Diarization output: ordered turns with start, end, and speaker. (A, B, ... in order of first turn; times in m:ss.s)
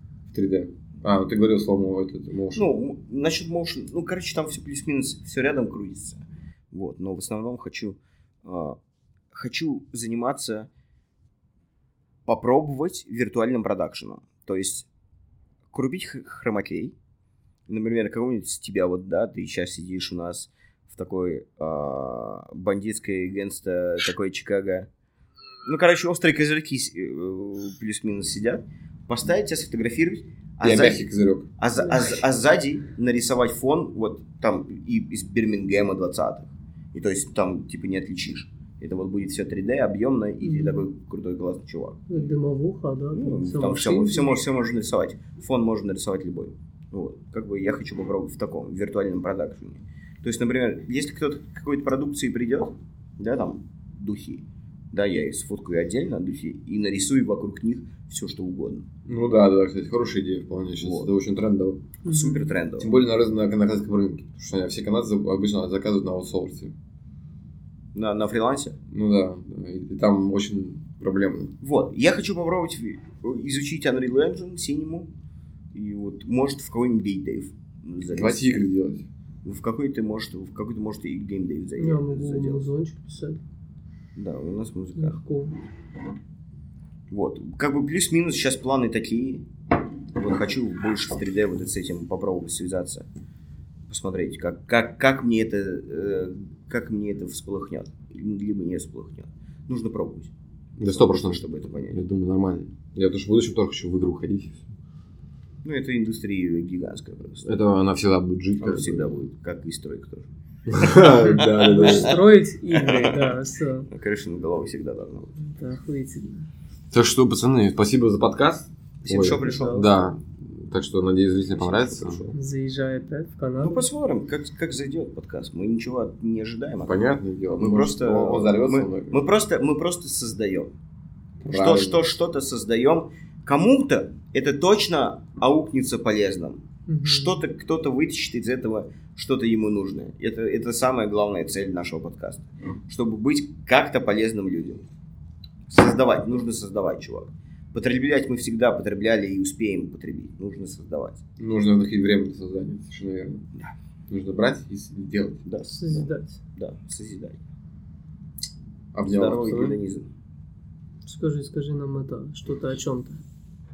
0:00.3-0:02.8 A
0:02.6-0:08.8 B
0:09.3-0:10.7 B
0:12.3-0:14.9 B
0:15.7-0:17.0 B
0:17.7-0:24.9 B
0:25.6-0:31.0 B
0:30.6-0:31.5 A
0:31.6-0:42.1 B
0:40.4-0:40.8 C
0:42.1-0:44.4 C
0:43.1-0:58.9 B
0:59.0-1:01.8 A
1:00.8-1:01.1 B
1:02.0-1:02.5 C
1:02.0-1:02.9 B
1:02.8-1:06.7 A
1:07.9-1:08.8 B
1:08.9-1:11.5 A
1:11.6-1:15.1 B
1:15.7-1:18.6 B
1:18.1-1:19.1 A
1:19.4-1:22.7 B
1:21.8-1:23.4 C
1:24.1-1:25.2 B
1:25.0-1:25.6 C
1:27.1-1:29.5 B
1:30.1-1:33.1 B
1:33.9-1:40.3 B
1:40.8-1:44.7 A
1:40.9-1:42.0 B
1:45.6-1:47.5 B
1:47.4-1:49.2 A
1:48.6-1:52.2 B
1:50.7-1:52.2 A
1:51.3-1:53.9 C
1:52.7-1:53.2 B
1:53.9-1:55.3 B
1:55.4-1:56.5 C
1:56.9-2:02.2 A
1:59.0-1:59.9 B
1:59.3-1:59.9 C
2:01.5-2:02.4 B
2:02.3-2:03.8 C
2:03.6-2:07.0 B
2:06.8-2:09.2 A
2:07.6-2:10.7 B
2:11.4-2:12.0 A
2:11.5-2:24.9 B
2:16.9-2:17.4 C
2:25.7-2:31.2 B
2:31.4-2:33.4 A
2:34.1-2:35.4 A
2:35.4-2:37.4 B
2:35.7-2:36.4 C
2:38.9-2:39.8 A
2:39.0-2:40.1 B
2:41.0-2:43.2 C